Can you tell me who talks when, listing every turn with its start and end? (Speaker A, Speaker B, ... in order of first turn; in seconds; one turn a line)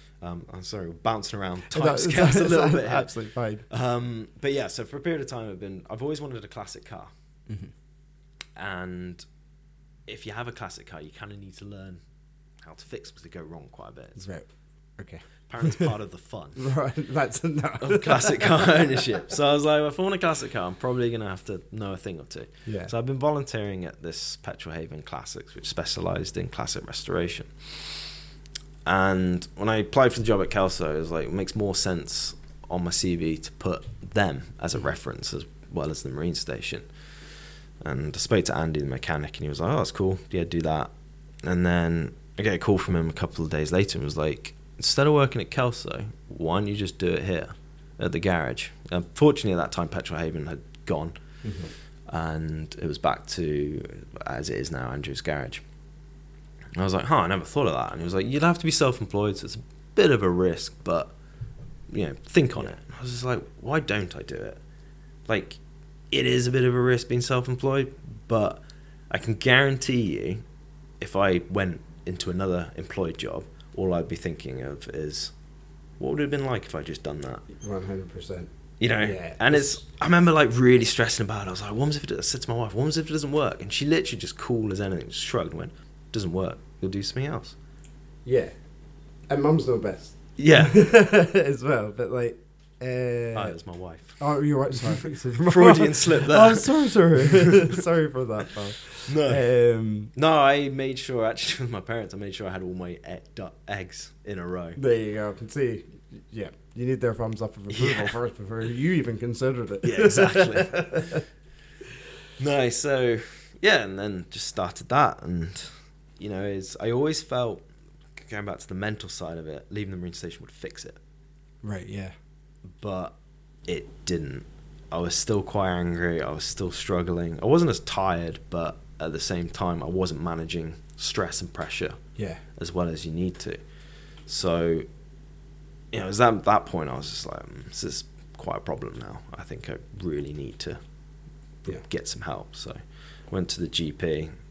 Speaker A: 0.2-3.2
Speaker B: 1.7-3.6
Speaker A: 3.7-7.1
Speaker A: 8.6-9.2
Speaker A: 10.1-12.0
Speaker A: 12.6-14.2
Speaker B: 14.2-14.4
Speaker B: 15.0-15.9
Speaker A: 15.5-16.7
Speaker B: 16.6-19.2
Speaker A: 17.8-28.0
Speaker B: 22.6-22.9
Speaker A: 28.8-36.9
Speaker A: 37.8-40.9
Speaker A: 41.4-51.1
Speaker B: 51.4-51.7
Speaker A: 52.1-55.6
Speaker A: 56.8-61.1
Speaker A: 61.9-64.6
Speaker A: 65.3-65.6
Speaker A: 66.1-70.4
Speaker A: 71.0-75.3
Speaker A: 76.0-77.4
Speaker B: 77.5-79.8
Speaker A: 78.8-87.5
Speaker B: 88.2-88.5
Speaker B: 89.3-93.5
Speaker A: 90.4-90.8
Speaker A: 93.3-94.2
Speaker B: 94.2-100.1
Speaker A: 94.7-97.8
Speaker A: 99.1-99.4
Speaker A: 100.1-104.8
Speaker B: 104.8-111.2
Speaker A: 107.7-108.2
Speaker A: 109.8-111.2
Speaker A: 112.4-117.6
Speaker A: 118.2-121.0
Speaker B: 121.6-122.1
Speaker A: 122.7-123.1
Speaker A: 123.7-132.0
Speaker B: 132.2-132.4
Speaker A: 132.6-133.6
Speaker A: 134.3-134.8
Speaker A: 135.9-140.8
Speaker A: 141.8-142.8
Speaker A: 143.3-144.3